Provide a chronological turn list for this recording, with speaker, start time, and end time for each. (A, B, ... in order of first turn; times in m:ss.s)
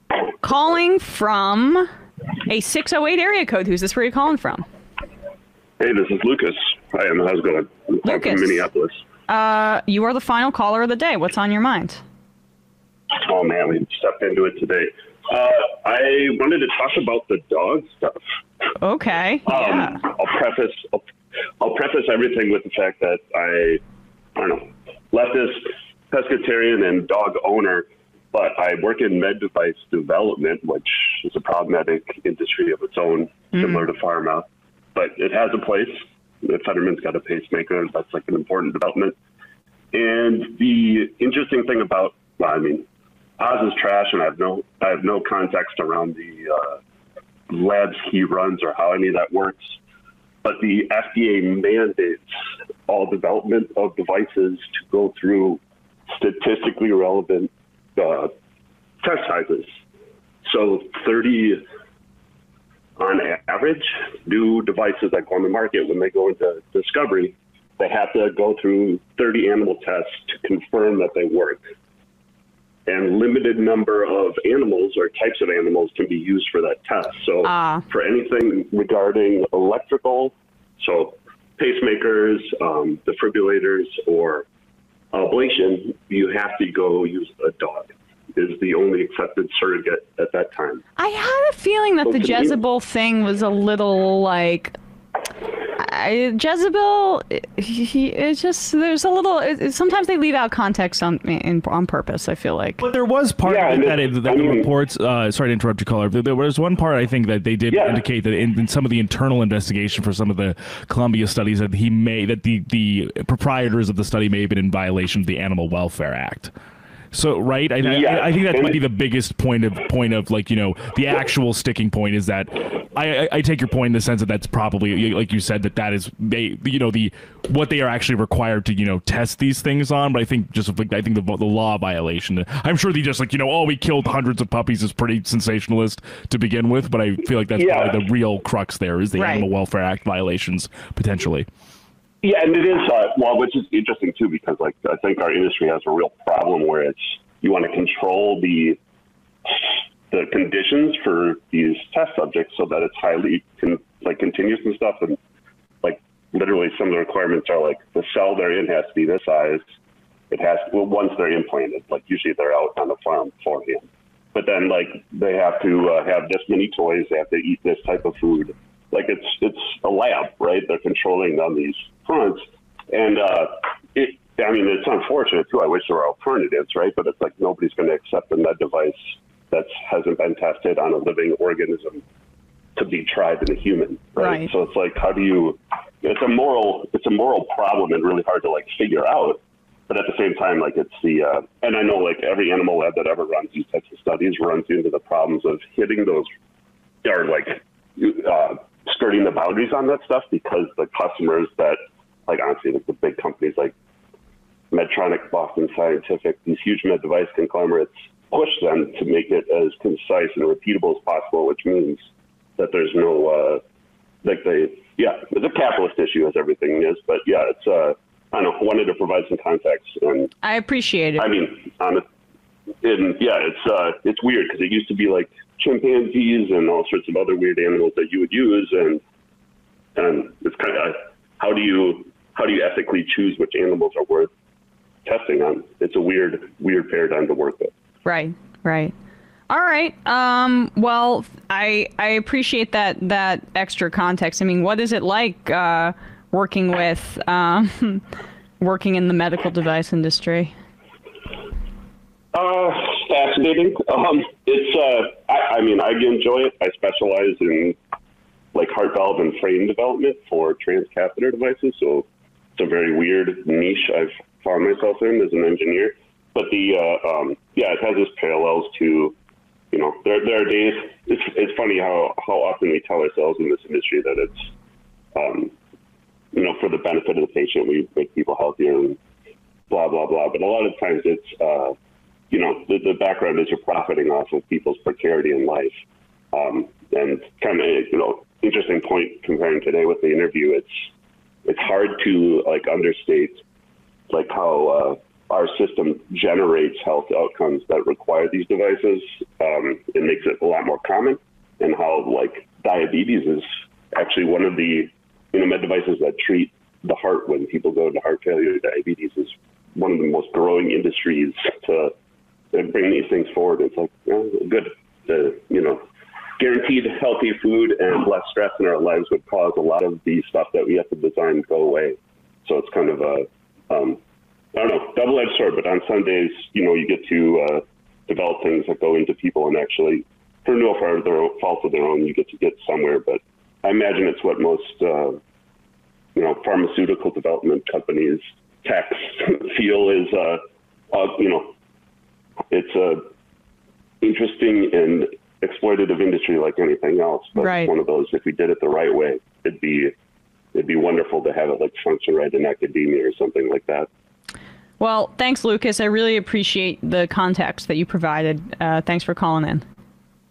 0:00.4-0:01.9 A
0:02.4-0:04.6 A
0:05.8-0:09.0 B
0:08.0-0:08.6 A
0:09.3-0:12.0 A
0:13.1-0:18.2 B
0:18.8-0:20.0 A
0:19.4-0:21.0 B
0:21.6-0:23.8 B
0:24.4-0:39.1 B
0:39.9-0:42.9 B
0:43.4-0:46.8 B
0:47.5-0:49.8 B
0:50.4-0:52.3 B
0:52.8-0:58.3 B
0:59.0-0:59.7 B
1:00.4-1:01.6 B
1:03.0-1:11.6 B
1:12.8-1:24.5 B
1:17.4-1:17.8 A
1:25.1-1:30.8 B
1:31.0-1:34.7 A
1:32.0-1:32.6 B
1:35.8-1:42.8 A
1:42.8-1:56.5 C
1:43.4-1:44.7 B
1:47.7-1:48.0 B
1:57.1-2:21.5 C
1:57.8-1:58.8 B
2:17.6-2:18.0 B
2:19.2-2:19.5 A
2:22.2-2:28.8 B
2:29.5-2:35.2 B
2:35.8-2:39.6 B
2:40.3-3:02.0 B
3:02.8-3:16.3 B
3:04.2-3:04.5 A
3:17.0-3:23.7 B
3:24.7-3:32.0 B
3:32.6-3:33.6 B
3:34.2-3:40.3 B
3:40.4-3:41.3 A
3:41.2-3:42.0 B
3:42.8-3:49.0 B
3:50.0-3:54.3 B
3:55.0-3:57.7 B
3:58.0-3:58.9 A
3:59.5-4:08.0 A
4:08.6-4:10.5 A
4:12.3-4:17.8 B
4:18.5-4:29.2 B
4:29.7-4:34.5 B
4:35.1-4:35.5 B
4:36.3-4:39.0 B
4:39.7-4:41.8 B
4:42.3-4:45.8 B
4:46.3-4:50.9 B
4:51.4-4:53.4 B
4:54.1-5:11.9 B
5:12.5-5:15.8 B
5:16.4-5:24.0 B
5:24.5-5:35.2 B
5:36.1-5:40.4 B
5:40.9-5:41.5 B
5:42.5-5:43.0 B
5:44.0-5:49.9 B
5:47.4-5:47.7 A
5:50.5-5:53.9 B
5:54.8-5:59.6 A